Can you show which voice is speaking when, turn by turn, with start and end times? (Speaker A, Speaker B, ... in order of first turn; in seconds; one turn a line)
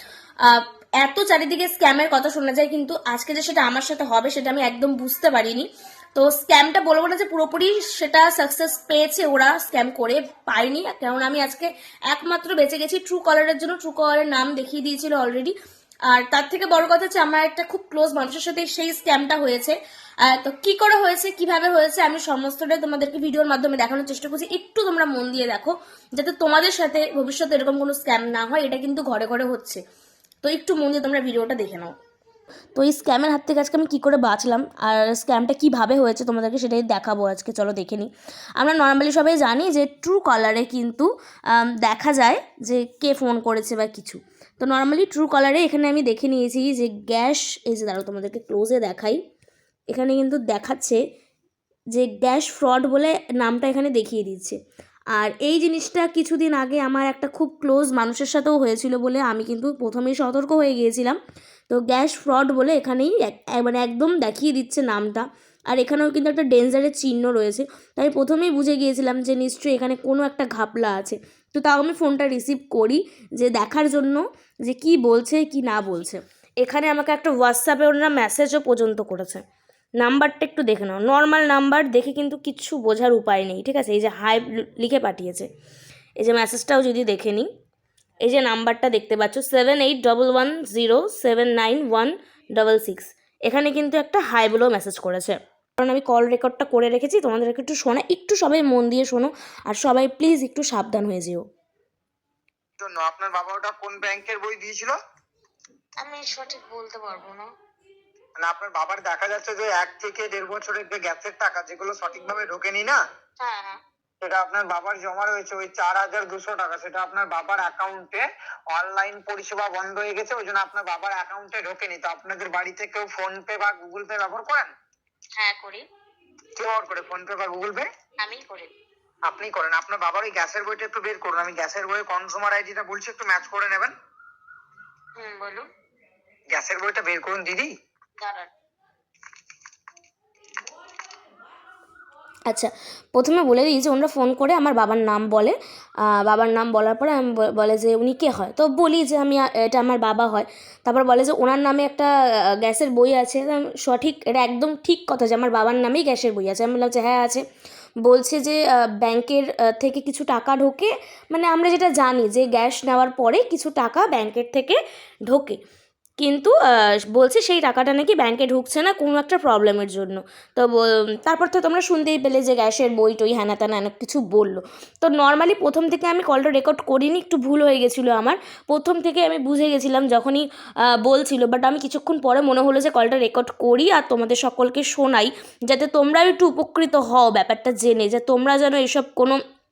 Speaker A: 0.4-15.6
Speaker A: 16.1-29.8
Speaker A: 30.4-31.9
Speaker A: 32.8-49.2
Speaker A: 49.9-51.0
Speaker A: 51.9-54.6
Speaker A: 55.2-61.2
Speaker A: 61.7-79.4
Speaker A: 80.0-85.5
Speaker A: 86.2-87.5
Speaker A: 88.2-101.5
Speaker B: 102.8-105.0
Speaker C: 106.0-107.5
Speaker B: 108.4-113.0
Speaker C: 113.4-113.8
Speaker B: 114.2-124.7
Speaker C: 125.4-125.8
Speaker B: 126.6-127.9
Speaker C: 128.2-128.7
Speaker B: 129.3-133.9
Speaker C: 135.2-135.6
Speaker B: 136.5-137.7
Speaker C: 138.2-138.5
Speaker A: 142.5-152.1
Speaker A: 152.6-157.4
Speaker A: 158.0-165.6
Speaker A: 166.2-189.4